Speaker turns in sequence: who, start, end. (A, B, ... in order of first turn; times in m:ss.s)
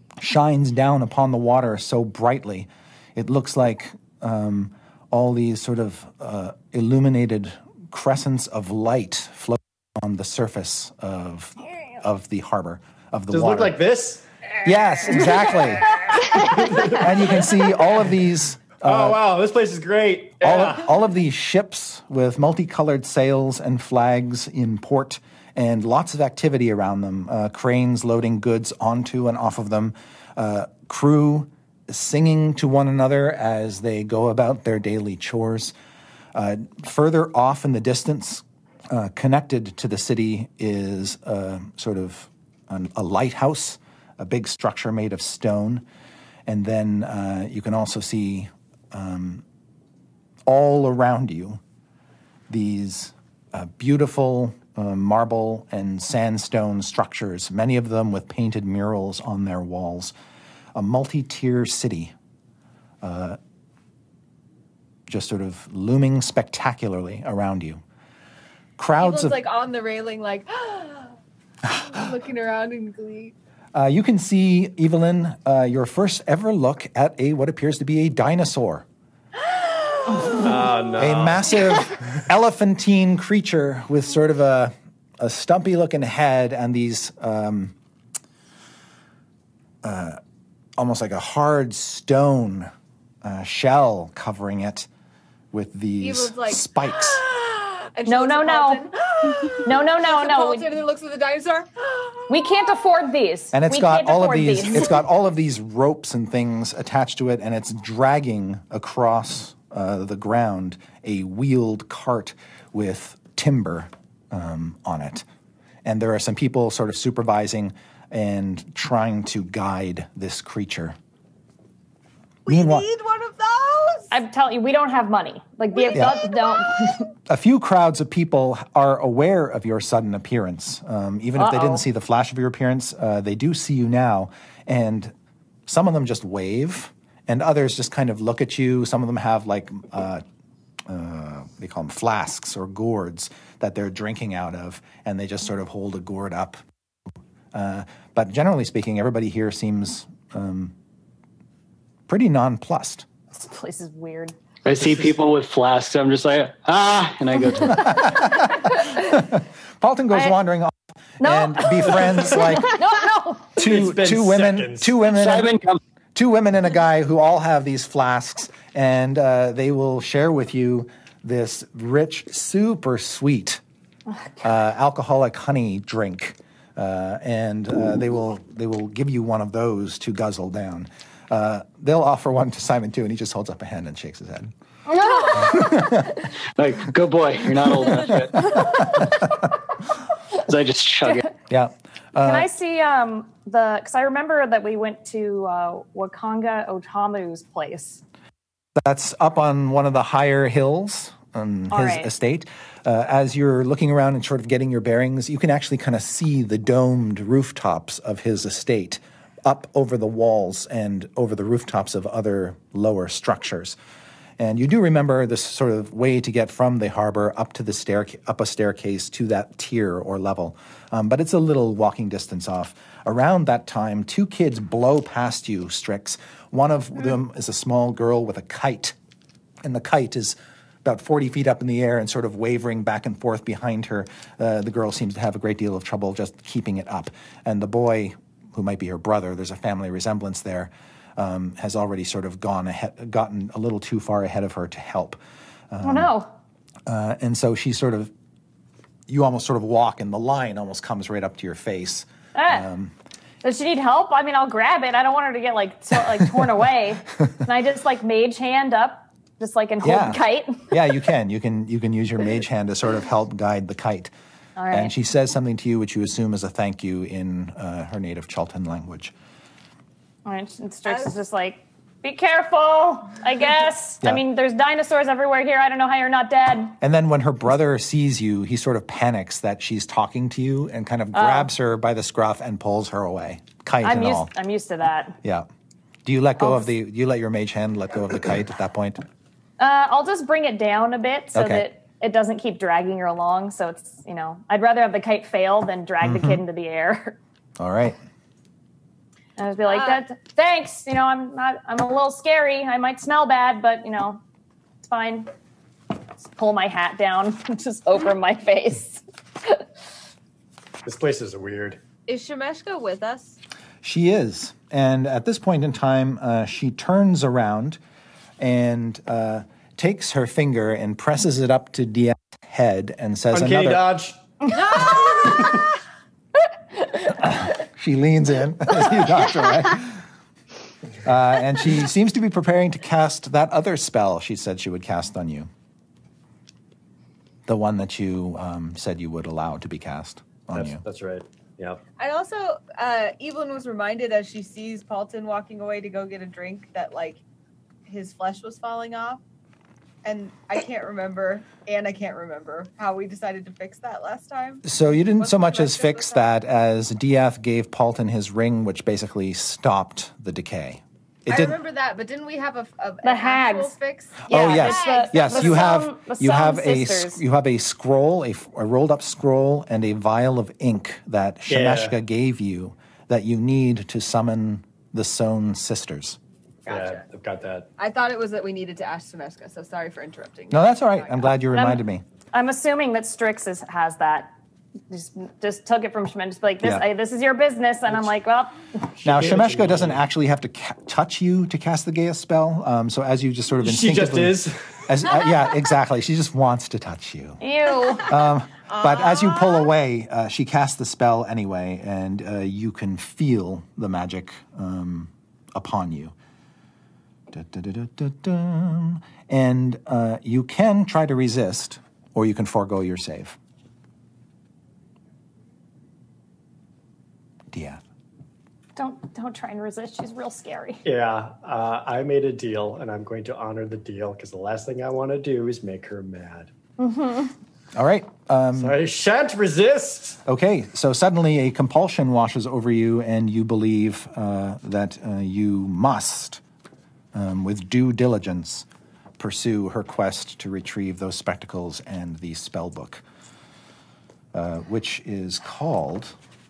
0:00.2-0:13.8 A
0:13.3-0:14.2 B
0:14.6-0:19.2 A
0:16.3-0:17.1 B
0:18.8-0:20.9 B
0:20.4-0:35.7 A
0:36.3-0:45.8 A
0:46.4-0:49.4 A
0:50.4-0:51.6 A
0:52.5-1:00.1 A
1:00.7-1:02.1 A
1:03.0-1:03.4 A
1:05.1-1:07.8 A
1:08.8-1:09.4 A
1:09.0-1:11.1 C
1:11.7-1:13.3 C
1:13.7-1:18.8 A
1:19.5-1:20.4 C
1:20.3-1:21.5 B
1:21.0-1:27.7 A
1:29.8-1:30.2 A
1:30.8-1:32.7 A
1:33.2-1:34.9 A
1:35.5-1:37.2 A
1:36.0-1:42.7 C
1:38.1-1:38.9 D
1:39.6-1:40.7 D
1:42.3-1:45.0 D
1:43.5-1:55.2 A
1:55.8-2:01.0 A
2:02.4-2:04.1 C
2:02.5-2:02.9 A
2:04.1-2:07.1 D
2:05.8-2:06.9 C
2:05.9-2:06.2 A
2:07.3-2:15.1 A
2:11.4-2:11.8 D
2:15.6-2:20.2 A
2:20.9-2:26.6 A
2:27.5-2:30.7 A
2:32.1-2:33.0 A
2:33.3-2:34.3 D
2:34.6-2:38.0 E
2:37.8-2:42.8 A
2:41.2-2:43.5 D
2:43.6-2:44.9 B
2:43.6-2:45.5 A
2:45.0-2:45.8 E
2:46.1-2:53.6 A
2:54.1-2:54.4 D
2:54.4-3:04.5 A
3:04.9-3:05.8 D
3:05.0-3:05.6 C
3:05.3-3:06.1 A
3:06.6-3:08.6 E
3:10.4-3:11.3 E
3:11.5-3:12.5 A
3:12.2-3:18.0 D
3:18.8-3:33.8 A
3:21.7-3:22.1 D
3:34.4-3:49.0 A
3:49.6-4:05.2 A
4:05.7-4:06.1 A
4:05.8-4:06.3 D
4:06.8-4:08.1 A
4:09.1-4:12.9 A
4:12.3-4:12.6 D
4:13.4-4:20.7 D
4:19.8-4:24.1 A
4:24.6-4:24.9 D
4:24.7-4:29.1 A
4:30.2-4:36.8 D
4:30.9-4:31.1 C
4:36.8-4:44.3 A
4:41.1-4:41.5 D
4:43.8-4:45.2 D
4:45.2-4:45.5 A
4:46.0-4:49.0 A
4:49.6-4:57.2 D
4:51.3-4:51.7 A
4:56.0-4:56.4 A
4:57.6-4:58.0 A
4:59.4-5:04.2 D
4:59.7-5:00.0 C
5:04.8-5:05.3 D
5:06.2-5:09.6 D
5:10.8-5:11.8 B
5:12.1-5:13.4 C
5:13.8-5:17.8 A
5:18.4-5:23.9 A
5:23.3-5:24.5 B
5:24.5-5:25.6 C
5:25.3-5:25.6 B
5:27.2-5:30.0 A
5:31.0-5:35.5 A
5:37.5-5:40.8 A
5:40.5-5:41.8 B
5:42.0-5:47.2 C
5:47.9-5:49.2 C
5:50.0-5:54.6 C
5:54.6-6:01.6 A
5:55.2-5:56.2 C
6:01.3-6:05.7 C
6:03.0-6:03.7 D
6:04.3-6:07.2 D
6:04.3-6:16.2 A
6:11.5-6:11.9 B
6:16.6-6:17.0 C
6:16.7-6:17.7 B
6:17.8-6:21.3 C
6:20.5-6:22.0 A
6:21.5-6:21.8 D
6:22.3-6:24.3 D
6:24.9-6:28.6 D
6:29.0-6:30.0 B
6:29.0-6:37.4 A
6:33.6-6:34.8 B
6:37.4-6:38.1 D
6:38.0-6:46.1 A
6:38.7-6:39.7 C
6:47.3-6:53.4 A
6:57.5-6:57.8 A
6:58.8-7:00.8 D
7:00.8-7:06.5 B
7:06.8-7:07.3 D
7:07.7-7:08.8 A
7:08.5-7:10.2 B
7:10.2-7:16.4 A
7:17.1-7:18.6 A
7:19.2-7:23.0 A
7:24.3-7:26.1 A